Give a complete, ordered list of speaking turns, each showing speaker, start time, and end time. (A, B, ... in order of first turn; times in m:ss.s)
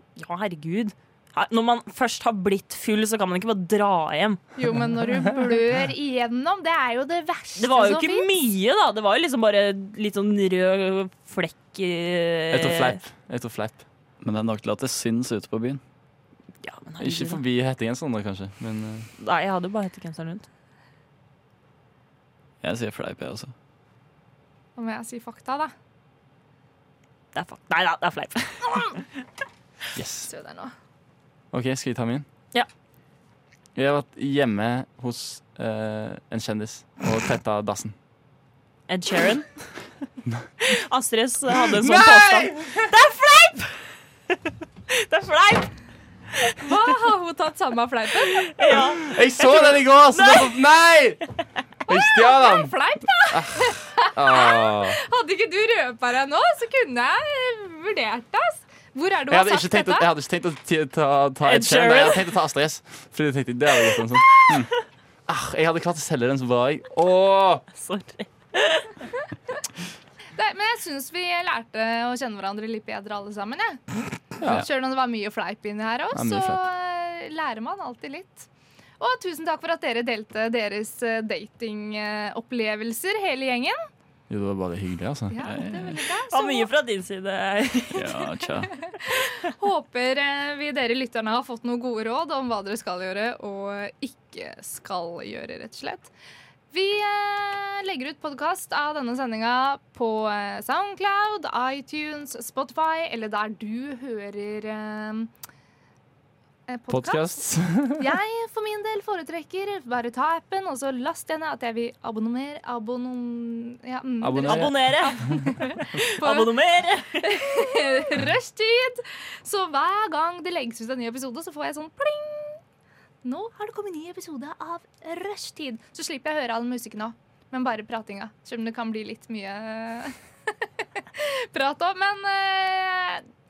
0:00.2-0:04.4 A
0:04.6-0:08.3 B
0:07.6-0:13.0 A
0:12.5-0:13.8 C
0:14.2-0:15.8 D
0:16.6-0:17.4 A
0:17.0-0:19.1 C
0:19.2-0:20.5 A
0:22.6-0:23.5 D
0:24.8-0:25.7 B
0:27.3-0:29.1 A
0:30.0-0:30.3 C
0:30.3-0:30.7 B
0:31.5-0:32.3 C
0:33.8-0:38.0 C
0:38.9-0:39.8 A
0:40.6-0:45.7 A
0:41.7-0:42.9 C
0:46.4-0:47.0 A
0:46.6-0:48.8 B
0:48.3-0:50.6 A
0:48.7-0:51.2 C
0:51.9-1:00.1 B
0:51.9-0:52.8 C
0:53.3-0:55.0 C
0:59.3-1:04.6 C
1:01.4-1:02.3 A
1:03.9-1:04.6 A
1:05.3-1:07.6 C
1:07.7-1:09.1 A
1:10.4-1:13.8 B
1:14.4-1:14.7 C
1:14.4-1:18.5 B
1:16.1-1:16.6 C
1:19.0-1:23.8 B
1:24.3-1:25.4 C
1:25.3-1:26.7 B
1:25.4-1:26.0 D
1:26.3-1:28.3 A
1:27.9-1:28.7 D
1:28.8-1:36.1 B
1:36.7-1:45.3 B
1:46.7-1:47.3 B
1:46.9-1:48.1 C
1:48.0-1:56.5 B
1:54.2-1:54.8 C
1:54.4-1:57.7 A
1:57.2-2:02.6 B
2:03.2-2:10.2 B
2:11.0-2:13.2 B